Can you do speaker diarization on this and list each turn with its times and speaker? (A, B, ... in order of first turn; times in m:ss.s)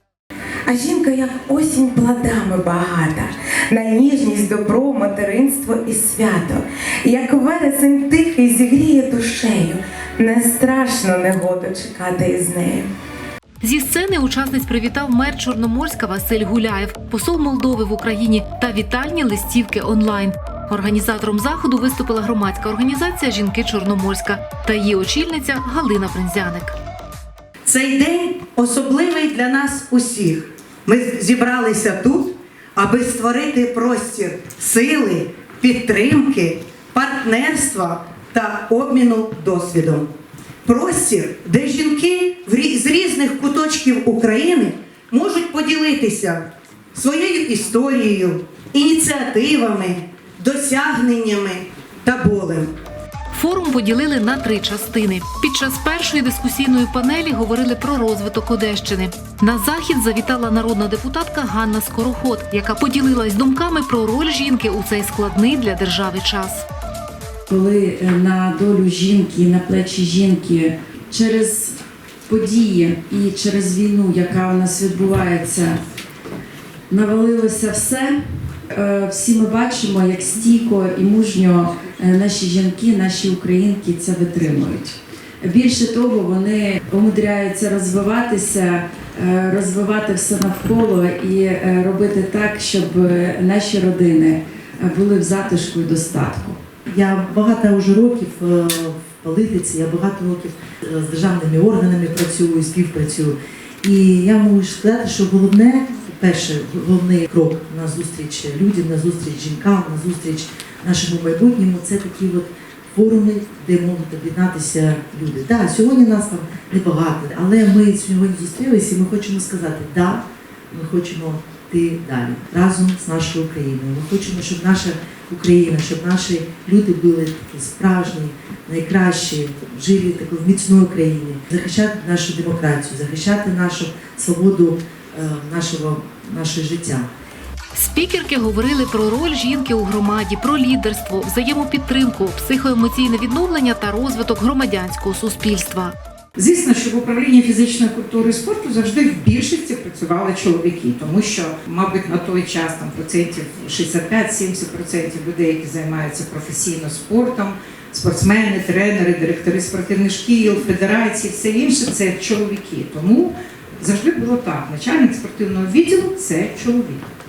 0:00.6-0:12.9 A
0:13.6-0:26.8 B
0:27.7-0:40.1 C
0:40.6-0:52.7 C
0:53.3-1:06.6 B
1:07.5-1:11.8 D
1:12.3-1:15.8 D
1:16.9-1:36.6 D
1:36.9-2:17.1 E
2:17.7-2:25.9 B
2:26.4-2:47.1 F